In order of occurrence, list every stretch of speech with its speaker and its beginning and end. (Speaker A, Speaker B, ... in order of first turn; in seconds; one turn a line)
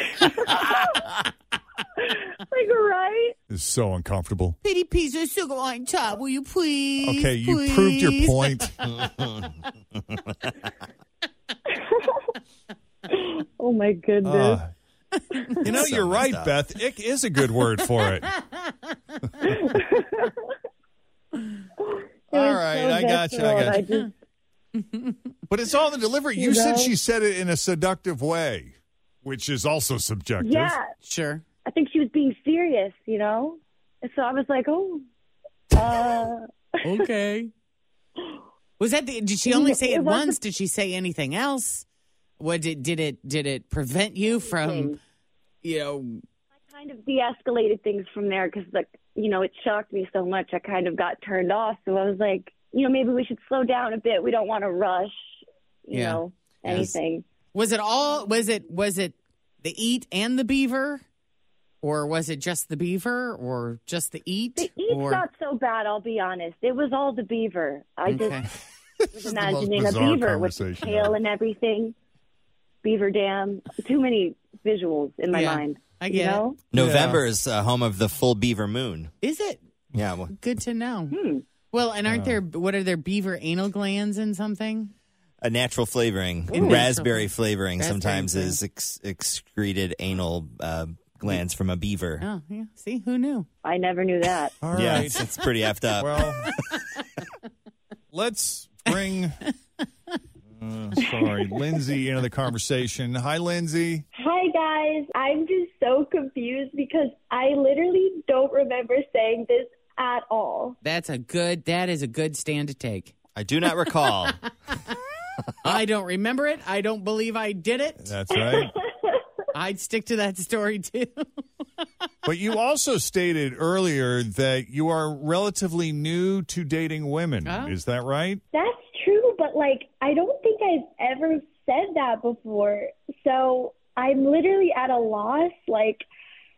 Speaker A: 0.2-1.0
Speaker A: 2.0-3.4
Speaker B: 3.5-4.6
Speaker C: 4.6-8.7
Speaker B: 7.0-8.8
Speaker D: 9.0-9.3
Speaker E: 13.2-14.6
Speaker B: 14.2-14.7
Speaker B: 15.6-18.3
Speaker D: 15.7-16.5
Speaker C: 18.4-18.7
Speaker B: 22.3-23.8
Speaker E: 22.3-24.1
Speaker C: 24.8-25.2
Speaker B: 25.5-30.8
Speaker A: 26.4-26.9
Speaker A: 30.4-30.9
Speaker C: 31.0-31.4
Speaker E: 31.7-35.0
Speaker E: 35.7-36.4
Speaker C: 36.8-37.5
Speaker C: 38.8-41.9
Speaker A: 39.6-40.2
Speaker E: 39.6-40.2
Speaker C: 42.4-45.0
Speaker E: 44.5-45.0
Speaker C: 45.6-46.2
Speaker E: 46.7-55.3
Speaker E: 55.9-57.2
Speaker C: 55.9-56.9
Speaker C: 57.5-61.0
Speaker C: 61.8-65.2
Speaker E: 64.6-68.5
Speaker C: 68.1-68.5
Speaker B: 69.0-71.2
Speaker E: 69.1-72.0
Speaker E: 72.8-76.6
Speaker C: 75.3-77.2
Speaker D: 76.7-79.1
Speaker B: 76.8-77.2
Speaker C: 79.2-79.6
Speaker D: 80.0-80.3
Speaker C: 80.3-81.2
Speaker E: 81.1-81.4
Speaker C: 81.7-84.9
Speaker B: 82.1-82.4
Speaker D: 85.4-92.2
Speaker C: 86.5-88.6
Speaker C: 92.2-93.5
Speaker E: 93.7-94.5
Speaker B: 94.6-95.2
Speaker D: 94.7-96.2
Speaker B: 96.0-96.5
Speaker B: 98.1-99.4
Speaker B: 100.6-104.0
Speaker A: 104.2-110.8
Speaker C: 110.8-113.2
Speaker D: 113.4-114.4
Speaker C: 115.6-118.1
Speaker B: 118.0-118.7
Speaker A: 118.3-119.2
Speaker C: 119.5-121.2
Speaker B: 122.2-128.4
Speaker C: 127.5-127.7
Speaker A: 128.5-136.1